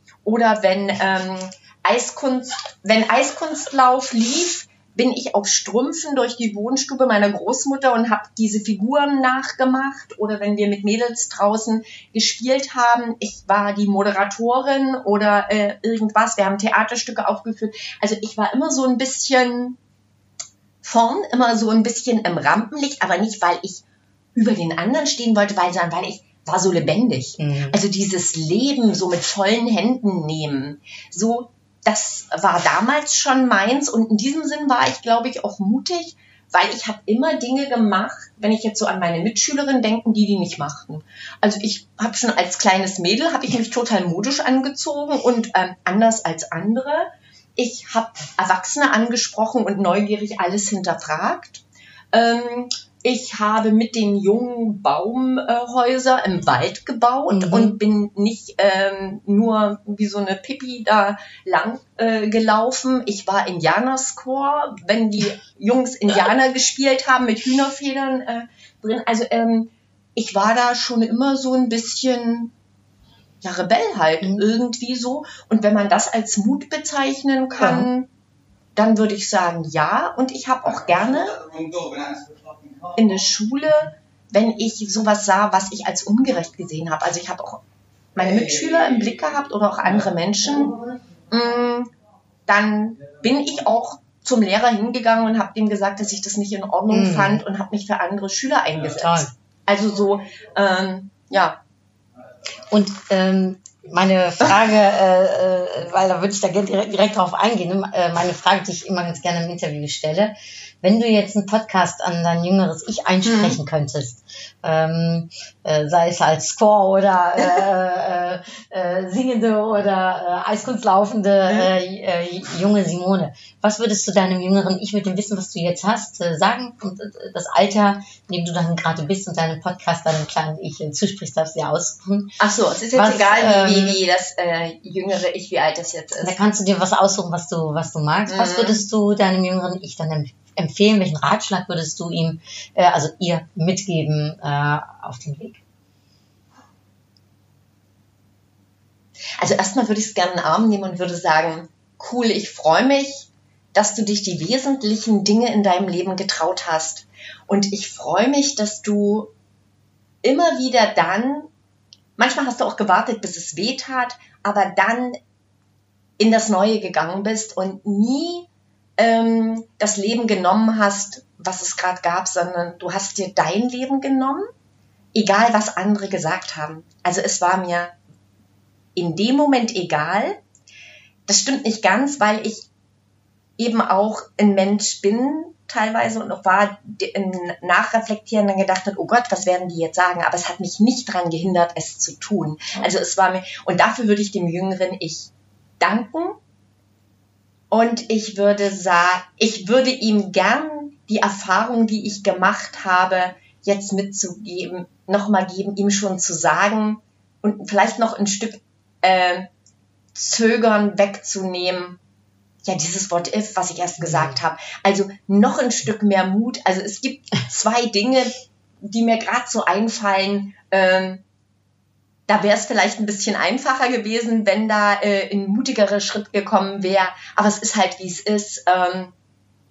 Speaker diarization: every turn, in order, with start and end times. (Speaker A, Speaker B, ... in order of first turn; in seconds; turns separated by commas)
Speaker A: 0.2-19.8, Speaker A: 20.8-23.8, Speaker A: 24.3-72.5, Speaker B: 27.4-27.8, Speaker B: 57.3-57.8, Speaker A: 73.4-78.1, Speaker B: 77.6-77.9, Speaker A: 78.7-81.7, Speaker A: 82.9-87.6, Speaker A: 88.1-91.9, Speaker A: 92.5-101.6, Speaker B: 96.9-97.4, Speaker B: 99.0-99.3, Speaker B: 102.7-132.4, Speaker A: 113.2-113.6, Speaker A: 132.4-136.4, Speaker B: 132.9-134.0, Speaker B: 136.2-145.6, Speaker A: 138.3-138.8, Speaker A: 149.4-159.3, Speaker A: 160.2-161.5, Speaker A: 162.2-165.2, Speaker A: 166.2-174.4, Speaker A: 175.1-177.9, Speaker A: 178.9-180.4, Speaker A: 181.3-182.7, Speaker A: 183.6-196.4, Speaker A: 197.7-209.5, Speaker A: 210.1-212.0, Speaker A: 212.6-221.2, Speaker B: 214.0-214.3, Speaker A: 222.3-229.1